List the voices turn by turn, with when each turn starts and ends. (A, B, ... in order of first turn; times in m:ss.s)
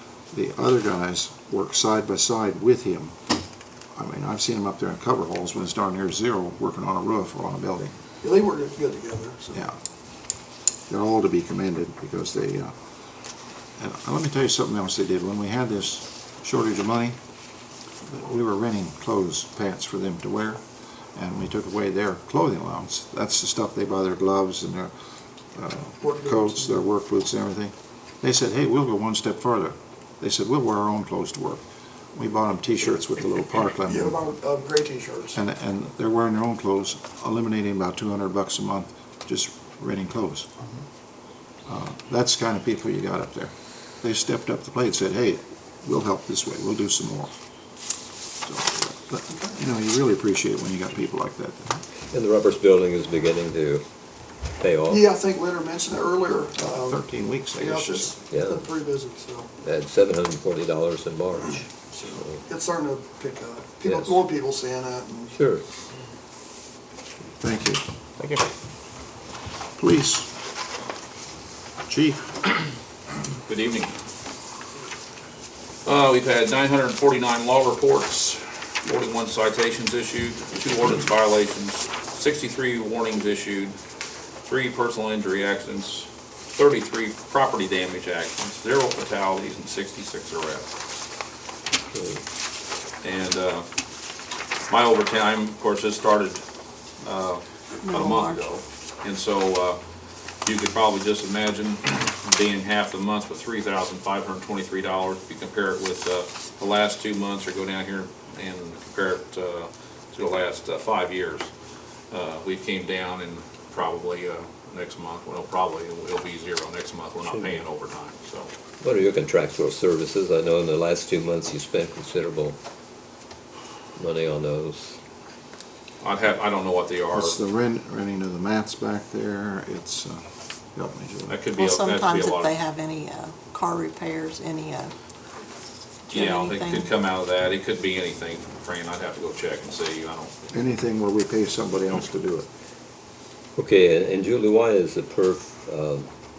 0:00.3-0:03.2 A
0:04.0-0:07.9 A
0:08.2-0:09.6 B
0:10.9-0:12.8 A
0:13.8-0:17.2 A
0:18.0-0:20.6 A
0:21.1-0:24.9 A
0:25.5-0:31.6 A
0:26.0-0:26.8 B
0:32.2-0:34.2 A
0:33.8-0:35.4 B
0:35.4-0:40.5 A
0:41.7-0:47.3 A
0:48.4-0:51.8 A
0:49.3-0:49.6 B
0:52.1-0:53.8 C
0:54.6-0:55.0 C
0:54.9-0:57.0 B
0:56.7-0:58.1 A
0:57.6-0:59.5 B
0:59.7-1:01.7 C
1:01.8-1:05.4 B
1:07.4-1:07.8 A
1:09.8-1:10.3 A
1:11.9-1:12.4 A
1:13.4-1:13.9 D
1:15.8-1:23.8 D
1:24.4-1:30.7 D
1:31.9-1:32.2 C
1:33.0-1:33.7 D
1:34.7-1:36.4 D
1:37.0-1:39.8 D
1:37.8-1:38.5 E
1:40.4-1:51.5 D
1:52.1-1:58.5 D
1:58.8-2:02.6 C
2:04.0-2:05.0 C
2:06.0-2:07.4 D
2:07.1-2:11.4 A
2:11.3-2:12.5 D
2:11.5-2:14.9 E
2:16.1-2:16.9 E
2:16.1-2:20.4 D
2:20.5-2:22.5 A
2:23.6-2:26.1 C